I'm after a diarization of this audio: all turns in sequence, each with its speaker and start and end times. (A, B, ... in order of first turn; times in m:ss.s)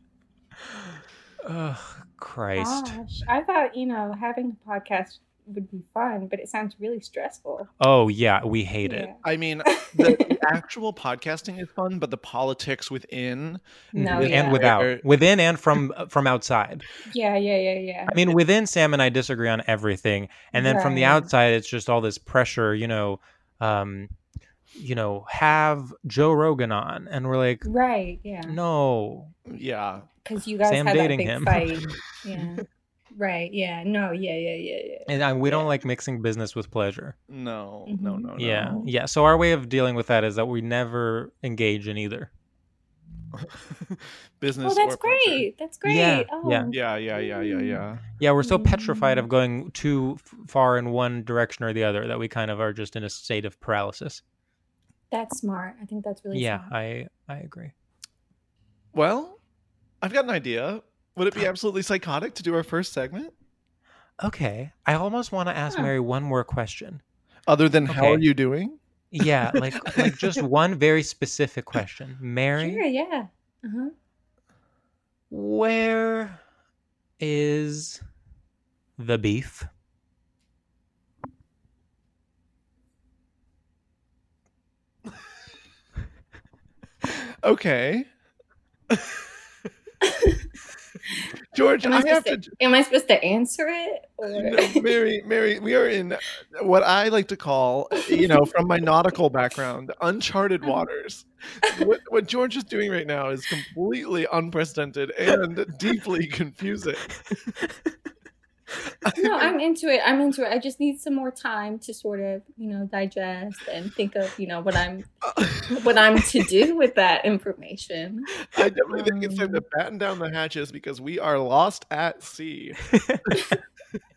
0:01.4-0:03.0 A
0:02.6-0:07.7 B
0:07.8-0:09.1 A
0:08.8-0:10.4 B
0:09.2-0:15.0 C
0:13.9-0:16.9 A
0:14.0-0:14.6 B
0:17.1-0:18.2 B
0:18.1-0:24.1 A
0:20.5-0:21.3 B
0:24.8-0:27.7 A
0:27.6-0:28.6 B
0:28.5-0:29.3 A
0:29.5-0:30.1 C
0:30.2-0:35.7 B
0:30.6-0:31.7 A
0:35.1-0:37.2 A
0:37.3-0:38.8 C
0:37.9-0:38.9 B
0:38.4-0:42.3 A
0:43.4-0:45.5 C
0:44.6-0:47.8 B
0:45.8-0:46.7 A
0:46.7-0:48.0 C
0:48.2-0:54.2 A
0:48.4-0:49.3 B
0:55.1-0:56.7 B
0:56.3-0:57.7 A
0:58.9-0:59.4 C
1:00.0-1:03.3 C
1:04.2-1:07.0 A
1:07.5-1:10.4 C
1:07.9-1:08.2 A
1:09.1-1:12.8 A
1:12.6-1:13.9 B
1:15.3-1:16.4 A
1:17.2-1:18.0 A
1:19.0-1:19.7 A
1:27.0-1:28.1 C
1:28.9-1:29.2 C
1:30.0-1:30.4 B
1:31.5-1:32.6 C
1:31.8-1:34.9 B
1:34.3-1:47.1 C
1:49.0-1:49.6 C
1:49.2-1:55.1 B
1:55.3-1:55.8 C
1:55.7-1:58.3 B
1:58.5-2:02.8 C
1:58.9-1:59.6 B
2:02.9-2:03.2 A